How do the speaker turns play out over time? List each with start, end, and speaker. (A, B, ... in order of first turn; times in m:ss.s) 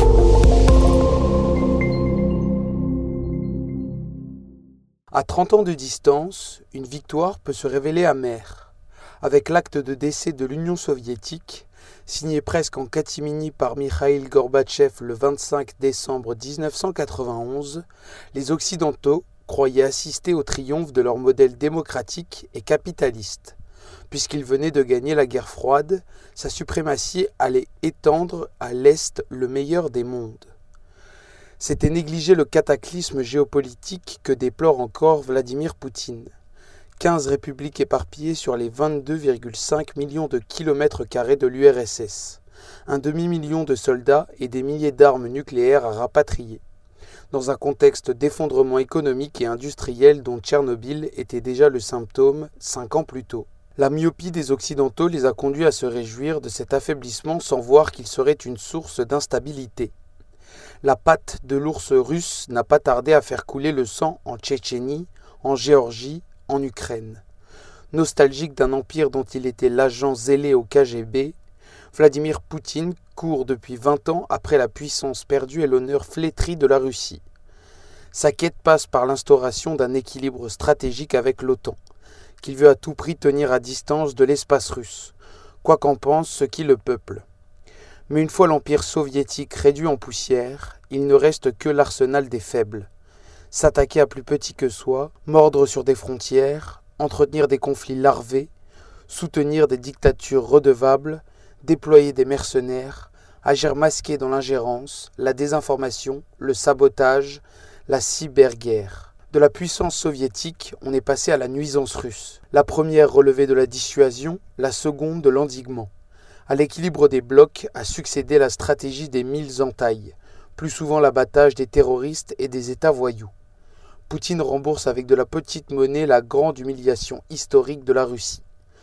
0:05.1-0:23.6 A
0:24.1-0:30.5 A
0:31.6-0:36.3 A
0:37.0-0:46.6 A
0:47.3-0:59.9 A
1:00.8-1:07.2 A
1:07.9-1:11.4 A
1:11.9-1:17.2 A
1:18.1-1:21.8 A
1:22.4-1:27.2 A
1:28.1-1:32.9 A
1:33.5-1:38.5 A
1:39.1-1:55.9 A
1:56.5-2:03.3 A
2:04.1-2:08.4 A